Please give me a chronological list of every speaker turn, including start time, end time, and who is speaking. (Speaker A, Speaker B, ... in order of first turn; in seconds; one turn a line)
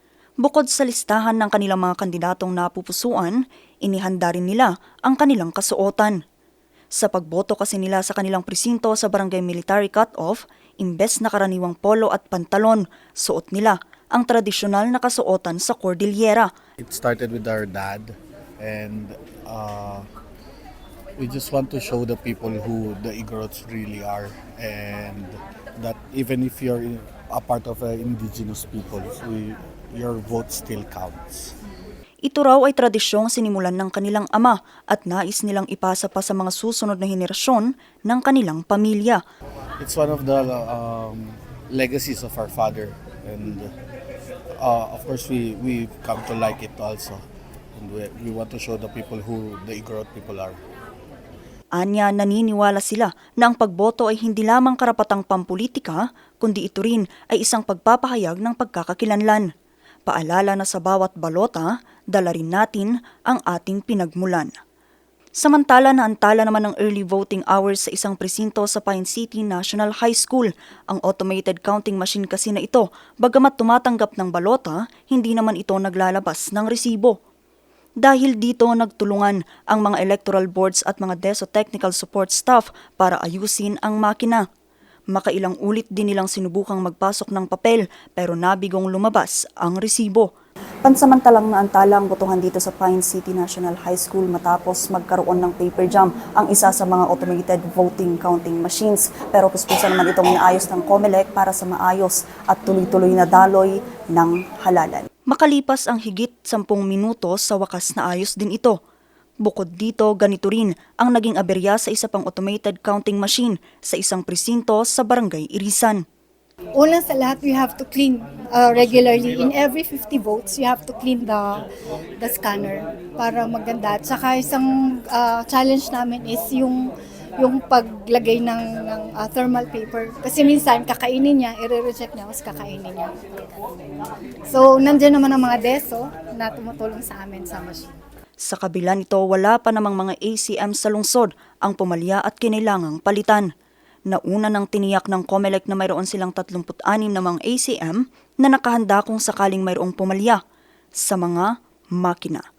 Speaker A: 0.4-6.2
Speaker A: 7.0-16.5
Speaker B: 16.8-20.1
Speaker B: 21.2-31.5
Speaker A: 32.2-39.2
Speaker B: 39.8-43.7
Speaker B: 44.6-47.2
Speaker B: 47.8-50.6
Speaker A: 51.8-59.5
Speaker A: 60.1-64.5
Speaker A: 65.4-77.1
Speaker A: 78.0-84.4
Speaker A: 85.1-90.3
Speaker A: 90.8-108.8
Speaker A: 109.4-116.0
Speaker C: 116.8-121.6
Speaker C: 122.2-133.2
Speaker C: 134.5-138.0
Speaker A: 138.5-143.5
Speaker A: 144.1-150.4
Speaker A: 151.0-152.4